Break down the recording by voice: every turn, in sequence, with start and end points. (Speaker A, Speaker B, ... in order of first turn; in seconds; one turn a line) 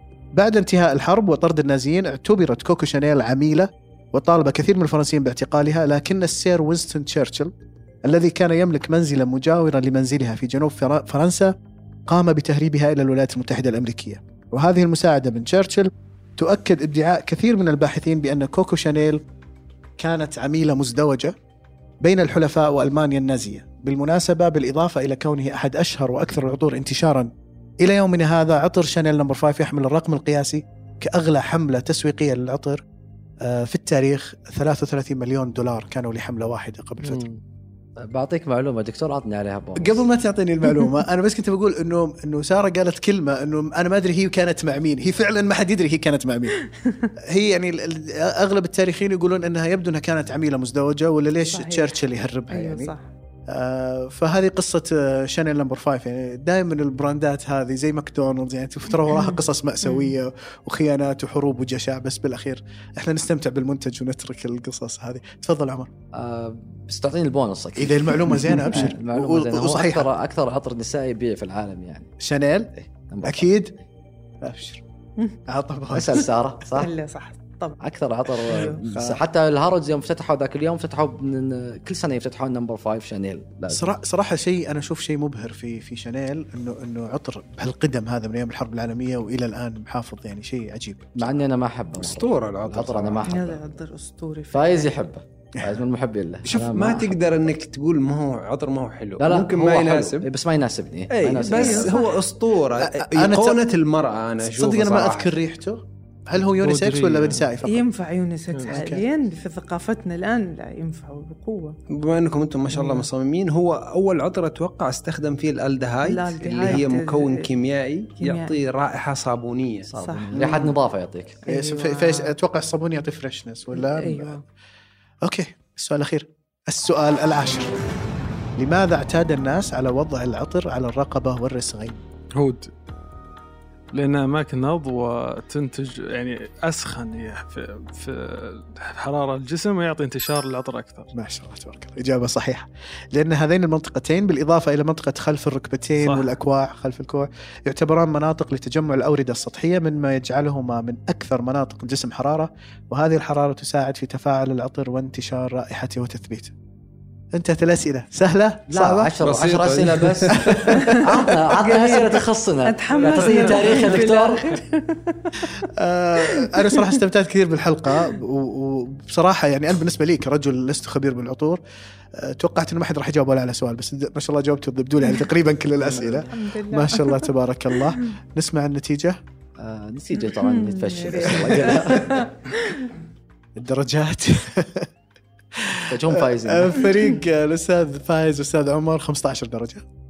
Speaker A: 0.3-7.5
Speaker A: 8.1-11.5
Speaker A: 12.1-19.2
Speaker A: 20.0-21.3
Speaker A: 22.0-27.3
Speaker A: 27.8-32.8
Speaker A: 33.4-37.3
Speaker B: 37.0-37.4
Speaker C: 38.0-40.1
Speaker A: 39.8-46.6
Speaker D: 46.8-47.1
Speaker A: 47.3-52.9
Speaker D: 51.5-53.1
Speaker A: 53.5-65.9
Speaker D: 59.1-60.2
Speaker C: 66.1-72.1
Speaker A: 67.8-70.1
Speaker A: 72.2-72.7
Speaker C: 72.8-73.5
Speaker A: 73.2-73.8
Speaker A: 74.4-74.8
Speaker A: 75.5-76.8
Speaker C: 75.9-76.9
Speaker D: 76.8-77.8
Speaker C: 77.8-83.9
Speaker D: 78.5-78.8
Speaker A: 78.6-79.2
Speaker A: 83.7-91.4
Speaker C: 91.2-93.8
Speaker E: 92.0-93.3
Speaker D: 93.2-94.8
Speaker C: 94.5-97.5
Speaker E: 96.5-100.3
Speaker C: 99.2-102.0
Speaker E: 101.1-105.4
Speaker D: 101.5-102.2
Speaker A: 102.8-103.6
Speaker A: 104.4-107.9
Speaker B: 106.5-107.5
Speaker D: 107.6-111.8
Speaker A: 108.7-109.1
Speaker E: 111.9-119.9
Speaker B: 112.7-113.0
Speaker D: 116.0-117.5
Speaker D: 118.2-118.6
Speaker C: 119.9-121.4
Speaker D: 120.0-120.3
Speaker A: 120.3-120.8
Speaker D: 121.4-122.4
Speaker A: 121.5-124.4
Speaker D: 123.7-124.4
Speaker A: 125.2-127.7
Speaker A: 128.6-132.0
Speaker B: 132.3-132.7
Speaker B: 133.9-141.1
Speaker A: 141.1-156.5
Speaker B: 146.0-146.3
Speaker A: 157.3-159.1
Speaker C: 158.7-164.5
Speaker E: 159.2-160.6
Speaker A: 160.6-161.0
Speaker D: 161.5-165.7
Speaker B: 163.0-163.8
Speaker A: 165.8-171.6
Speaker D: 166.2-167.0
Speaker A: 172.2-179.2
Speaker B: 175.8-176.1
Speaker D: 176.1-177.3
Speaker C: 179.6-182.3
Speaker D: 180.2-182.9
Speaker A: 183.6-184.9
Speaker A: 185.6-189.8
Speaker C: 185.9-186.8
Speaker D: 186.8-187.2